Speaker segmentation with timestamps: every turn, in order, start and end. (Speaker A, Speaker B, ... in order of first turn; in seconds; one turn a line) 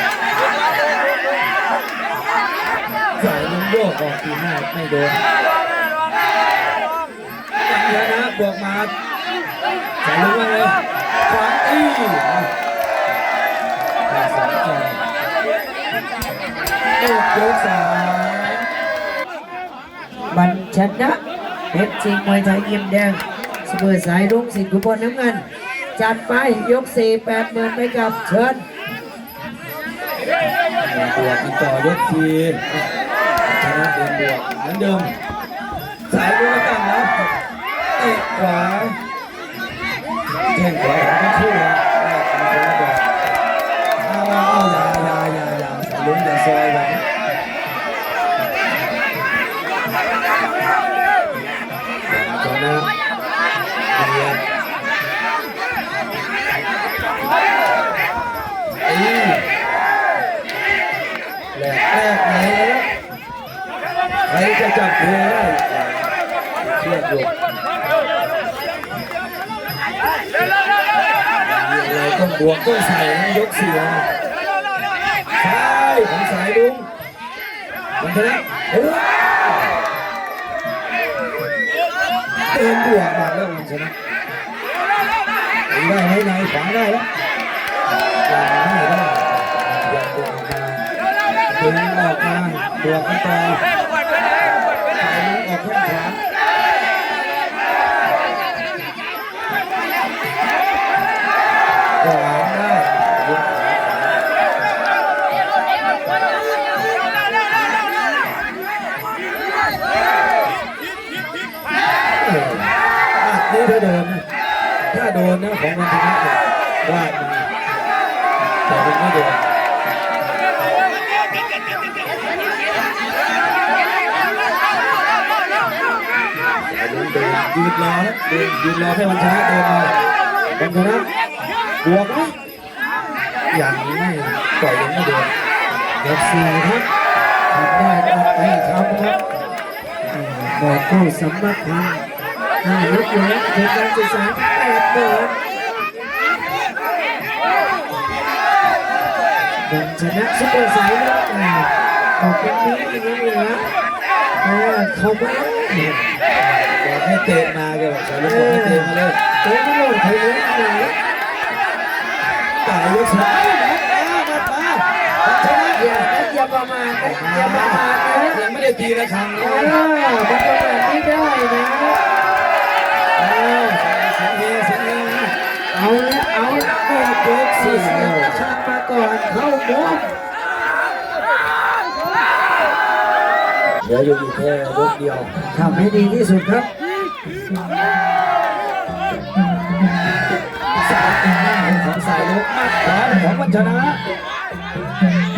Speaker A: 3.2-5.2
Speaker A: 7.6-8.9
Speaker A: 10.0-12.5
Speaker A: 14.1-15.0
Speaker A: 17.0-18.7
Speaker B: 20.3-21.2
Speaker B: 21.7-28.6
Speaker A: 30.8-32.8
Speaker A: 33.4-35.1
Speaker A: 36.1-37.3
Speaker A: 38.0-39.0
Speaker A: 40.5-43.1
Speaker A: 44.0-47.0
Speaker A: 52.1-52.9
Speaker A: 53.9-54.4
Speaker A: 58.9-59.5
Speaker A: 61.5-62.9
Speaker A: 64.3-67.3
Speaker A: 71.4-74.1
Speaker A: 75.4-76.9
Speaker A: 78.0-79.7
Speaker A: 82.5-84.0
Speaker A: 85.7-87.1
Speaker A: 88.3-90.8
Speaker A: 91.5-93.6
Speaker A: 95.0-96.2
Speaker A: 102.0-104.2
Speaker A: 112.1-114.2
Speaker A: 114.9-117.5
Speaker A: 118.7-119.5
Speaker A: 126.5-129.9
Speaker A: 130.5-131.1
Speaker A: 131.8-132.3
Speaker A: 133.5-135.3
Speaker A: 136.0-136.9
Speaker B: 137.5-139.2
Speaker B: 140.1-142.1
Speaker B: 142.6-145.3
Speaker B: 149.6-153.7
Speaker B: 154.4-155.9
Speaker A: 155.7-159.2
Speaker B: 158.2-161.0
Speaker A: 162.6-166.1
Speaker B: 165.8-168.4
Speaker A: 167.0-169.8
Speaker B: 169.4-172.0
Speaker A: 173.2-175.4
Speaker B: 175.7-180.1
Speaker A: 176.9-178.4
Speaker A: 183.8-185.4
Speaker B: 185.5-186.7
Speaker A: 190.8-194.0